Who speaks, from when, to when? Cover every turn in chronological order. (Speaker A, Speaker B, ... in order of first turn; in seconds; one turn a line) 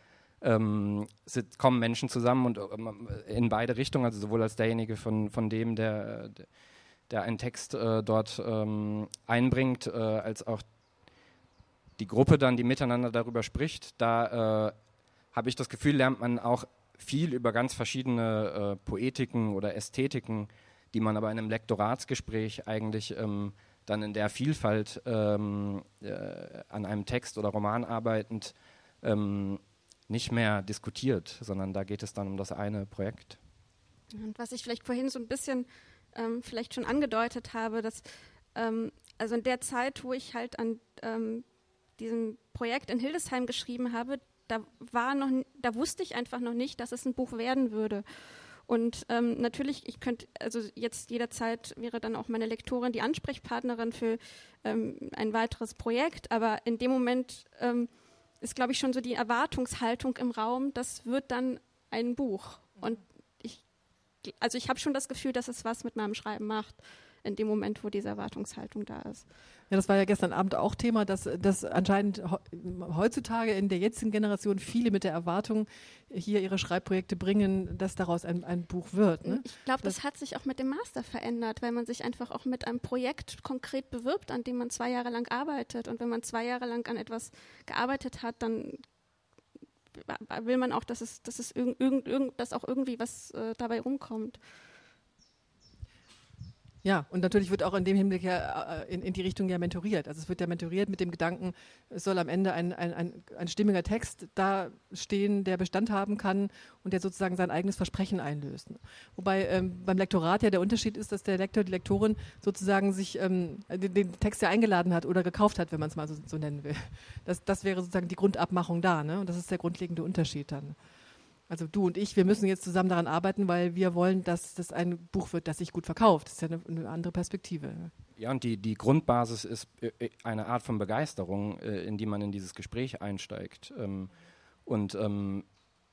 Speaker A: 0.4-6.5
Speaker A: 7.1-10.6
Speaker A: 12.0-14.7
Speaker A: 15.3-33.4
Speaker B: 34.1-41.4
Speaker B: 42.0-48.0
Speaker B: 48.7-57.9
Speaker B: 58.4-63.6
Speaker B: 64.2-69.2
Speaker C: 69.7-80.0
Speaker B: 79.2-88.8
Speaker B: 90.0-94.4
Speaker C: 96.8-120.8
Speaker C: 121.5-127.9
Speaker A: 128.2-134.1
Speaker A: 134.7-135.4